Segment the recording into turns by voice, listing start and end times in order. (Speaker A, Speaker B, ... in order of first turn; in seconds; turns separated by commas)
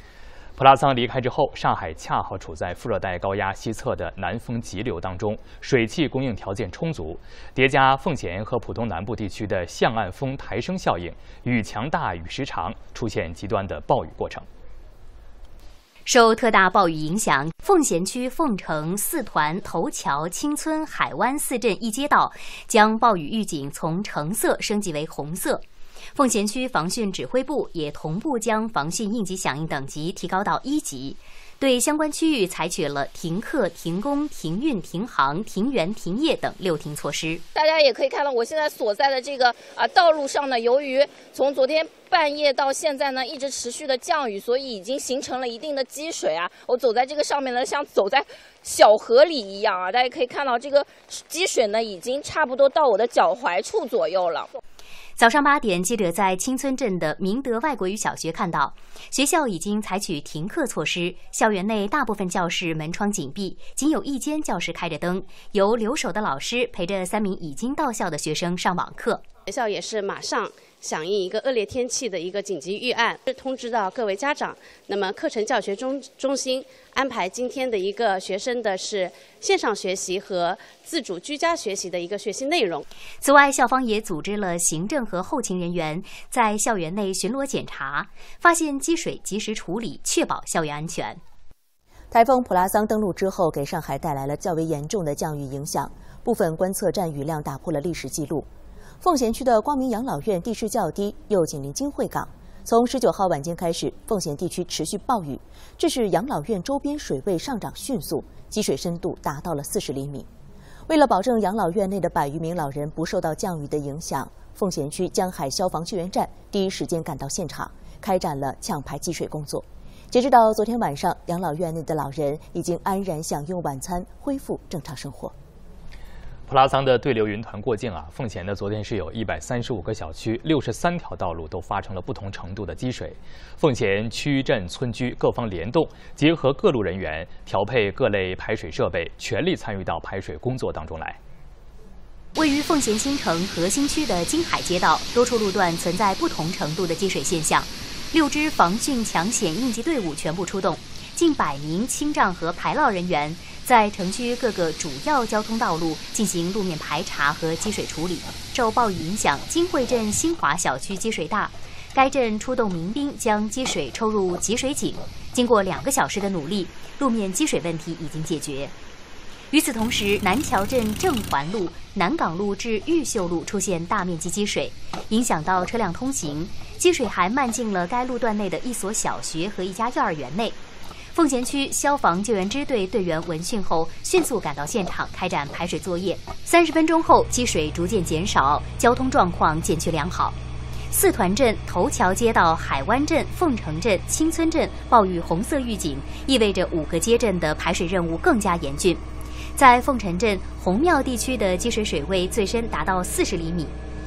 Speaker A: 0.6-14.5, Speaker B: 16.1-37.4, Speaker C: 37.5-54.5, Speaker B: 55.2-69.2, Speaker D: 69.5-82.8, Speaker B: 83.2-91.2, Speaker E: 92.1-98.5, Speaker E: 99.0-110.3, Speaker E: 110.9-125.3, Speaker A: 126.5-141.2, Speaker B: 142.3-168.7, Speaker B: 169.5-180.6, Speaker B: 181.1-190.4, Speaker B: 190.9-199.0, Speaker B: 199.6-203.8